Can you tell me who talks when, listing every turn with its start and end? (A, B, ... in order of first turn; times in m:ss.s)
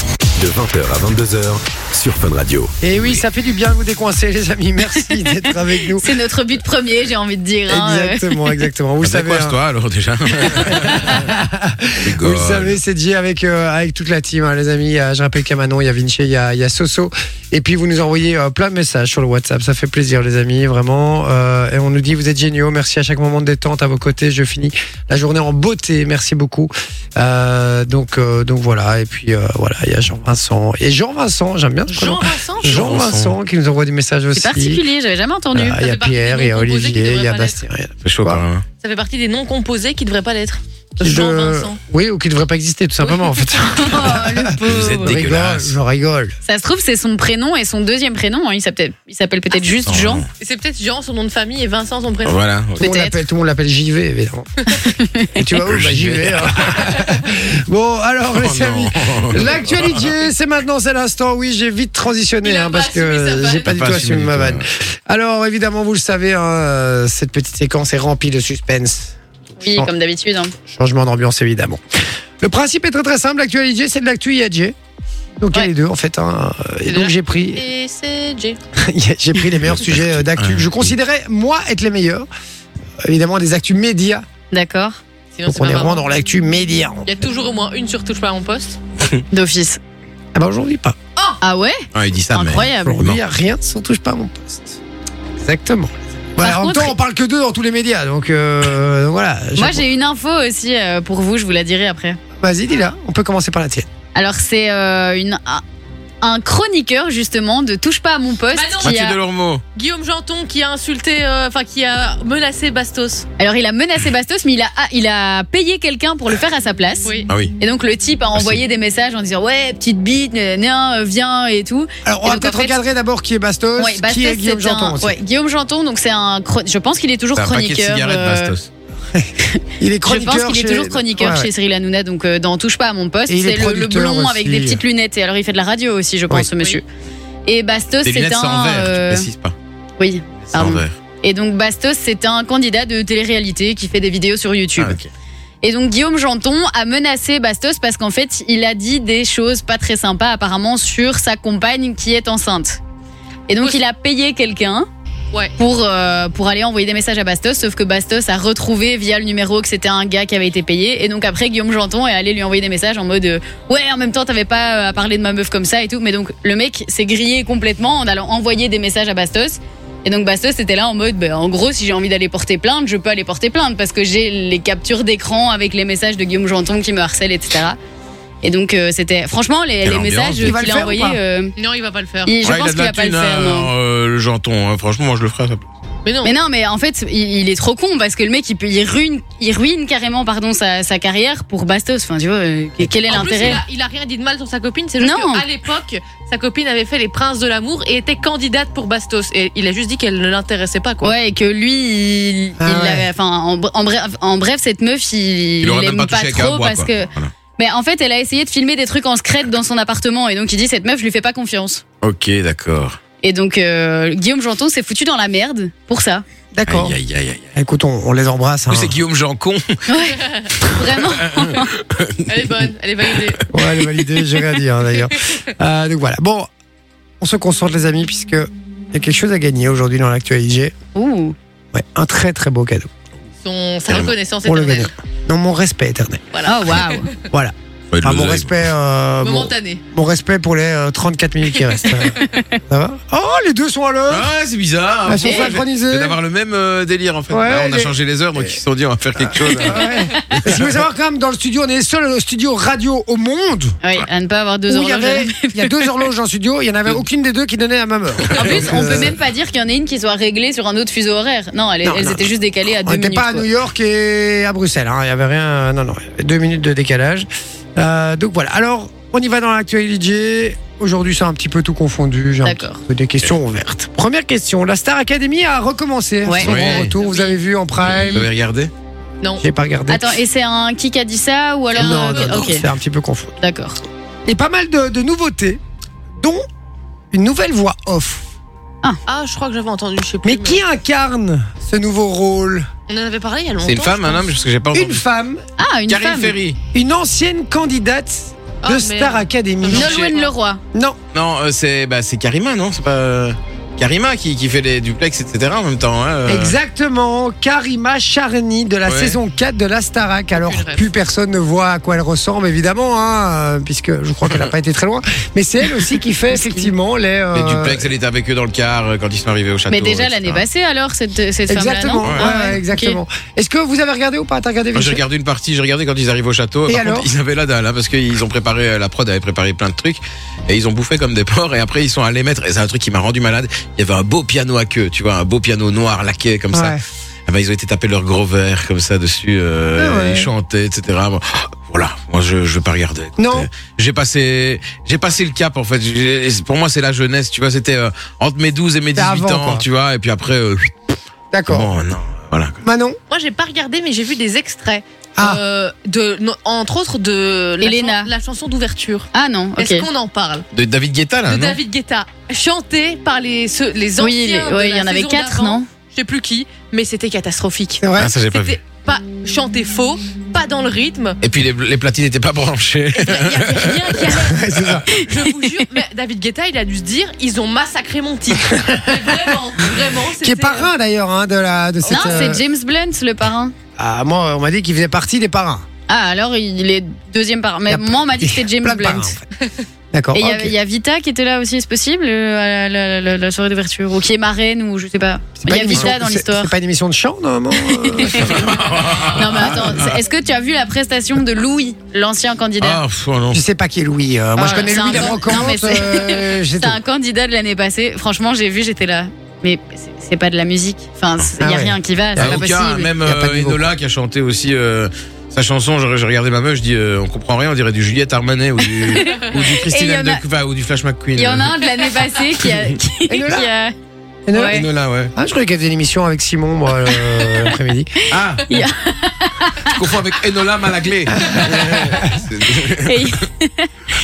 0:00.4-0:03.2 A
0:02.8-0:06.2 B
0:06.0-0:08.6 C
0:07.7-0:09.6 B
0:09.0-0:11.3 D
0:10.5-0:34.8 B
0:12.0-0:12.8 D
0:31.9-0:33.0 E
0:32.7-0:33.3 D
0:34.3-0:35.8 C
0:35.6-0:38.4 B
0:35.8-0:37.6 E
0:38.0-0:38.6 D
0:38.8-0:41.8 E
0:41.0-0:46.4 B
0:43.0-0:43.3 E
0:43.7-0:45.2 C
0:44.6-0:45.7 D
0:46.4-0:50.2 C
0:49.8-0:50.3 D
0:50.4-0:52.4 E
0:52.2-0:52.8 D
0:52.8-0:54.6 B
0:52.8-0:53.2 C
0:54.8-0:55.4 C
0:55.4-1:09.9 B
0:55.7-0:57.0 D
0:58.3-1:00.1 D
1:02.4-1:04.0 E
1:03.7-1:04.6 D
1:09.6-1:10.5 C
1:10.7-1:11.8 B
1:12.4-1:14.8 B
1:15.4-1:17.6 B
1:16.9-1:18.6 E
1:18.8-1:22.3 B
1:19.7-1:20.9 D
1:23.0-1:24.2 B
1:24.5-1:25.0 C
1:25.4-1:26.0 E
1:25.5-1:27.1 B
1:27.1-1:28.8 E
1:29.3-1:29.8 C
1:30.3-1:31.0 B
1:31.4-1:31.8 C
1:31.9-1:33.2 D
1:32.3-1:33.0 C
1:32.6-1:34.8 B
1:35.4-1:39.8 B
1:36.4-1:37.0 C
1:39.6-1:42.2 C
1:42.4-1:43.9 B
1:44.2-1:45.6 C
1:46.2-1:49.2 C
1:48.5-1:49.0 E
1:48.8-1:49.6 D
1:49.8-1:53.3 E
1:53.4-2:02.8 C
1:57.3-1:57.5 D
1:58.4-1:58.6 D
2:02.0-2:05.2 B
2:03.8-2:08.5 C
2:07.4-2:08.7 D
2:09.1-2:11.5 B
2:09.5-2:16.8 C
2:13.3-2:14.8 B
2:17.5-2:19.3 C
2:18.0-2:19.6 D
2:20.0-2:25.0 C
2:20.4-2:20.9 D
2:24.8-2:25.1 D
2:25.6-2:32.8 C
2:33.5-2:34.9 C
2:35.6-2:57.8 C
2:58.4-3:01.5 C
2:59.8-3:00.6 D
3:00.4-3:01.2 B
3:01.6-3:02.4 E
3:02.2-3:03.7 C
3:02.4-3:05.7 D
3:06.0-3:06.3 E
3:06.2-3:13.6 C
3:13.1-3:21.1 E
3:15.0-3:15.4 C
3:21.0-3:31.8 C
3:22.6-3:23.1 B
3:25.6-3:27.3 D
3:32.0-3:33.0 D
3:33.2-3:36.2 C
3:36.5-3:36.9 B
3:36.7-3:37.5 D
3:37.6-3:39.0 B
3:38.7-3:39.8 D
3:39.9-3:41.7 C
3:40.2-3:40.5 E
3:41.0-3:42.4 D
3:42.3-3:43.4 E
3:43.5-3:46.5 B
3:47.2-3:50.7 B
3:51.0-3:51.4 C
3:51.7-3:52.9 B
3:53.4-3:54.9 E
3:54.4-3:56.2 B
3:56.3-3:57.2 E
3:56.4-3:57.1 C
3:57.3-4:02.2 B
3:57.9-3:58.5 D
3:59.2-3:59.8 E
4:01.7-4:02.0 E
4:02.2-4:02.6 C
4:02.7-4:04.3 B
4:04.1-4:10.7 D
4:05.0-4:06.2 B
4:05.2-4:05.5 E
4:07.3-4:08.5 B
4:09.2-4:13.8 B
4:13.8-4:15.9 C
4:14.7-4:19.2 B
4:18.4-4:23.5 C
4:18.4-4:19.0 D
4:21.8-4:38.3 B
4:32.4-4:32.8 C
4:36.2-4:36.5 C
4:36.4-4:36.9 D
4:36.8-4:37.4 E
4:37.9-4:38.7 D
4:37.9-4:38.2 C
4:39.4-4:40.2 B
4:39.9-4:42.6 C
4:41.7-4:42.6 E
4:41.8-4:43.4 B
4:43.4-4:43.8 C
4:44.3-4:45.6 B
4:46.2-4:46.4 B
4:47.1-4:48.3 B
4:49.1-4:50.6 E
4:50.2-4:52.7 B
4:52.9-4:54.3 E
4:53.6-4:55.0 D
4:54.7-4:55.4 B
4:55.6-4:56.4 C
4:55.9-4:56.6 D
4:56.7-5:00.0 B
4:58.6-5:00.3 E
4:59.7-5:00.6 C
5:00.7-5:01.0 B
5:01.1-5:06.6 D
5:06.3-5:17.9 B
5:08.9-5:09.2 D
5:10.4-5:10.9 E
5:16.3-5:16.7 C
5:17.3-5:20.4 D
5:19.7-5:23.0 C
5:21.5-5:25.0 B
5:24.8-5:50.8 D
5:26.7-5:27.1 B
5:36.5-5:36.8 B
5:39.8-5:40.3 B
5:43.2-5:43.5 B
5:48.9-5:49.6 B
5:51.3-5:51.7 B
5:51.5-5:52.6 D
5:52.6-5:53.0 B
5:53.1-6:00.4 E
5:57.6-5:58.1 C
5:59.1-5:59.9 C
6:00.5-6:01.6 D
6:01.3-6:11.2 E
6:04.0-6:05.7 C
6:07.8-6:08.1 B
6:08.0-6:08.6 D
6:11.2-6:14.1 D
6:13.0-6:20.7 E
6:14.1-6:14.9 B
6:18.6-6:19.2 B
6:20.2-6:22.4 B
6:21.9-6:23.5 C
6:23.8-6:25.7 B
6:25.9-6:29.1 C
6:27.7-6:29.2 B
6:29.9-6:30.5 B
6:30.1-6:36.5 C
6:35.4-6:38.5 B
6:37.6-6:38.4 C
6:38.1-6:39.9 D
6:39.1-6:42.8 C
6:42.6-6:43.4 D
6:43.3-6:46.8 B
6:44.4-6:52.9 C
6:51.4-6:53.6 B
6:52.2-7:01.8 D
6:58.7-7:00.2 C
7:01.2-7:03.7 C
7:02.4-7:02.7 D
7:03.1-7:03.5 B
7:04.3-7:07.9 B
7:04.3-7:04.6 C
7:04.5-7:05.1 D
7:08.1-7:08.6 D
7:08.5-7:09.8 C
7:09.7-7:13.1 D
7:11.2-7:12.1 B
7:12.8-7:13.7 C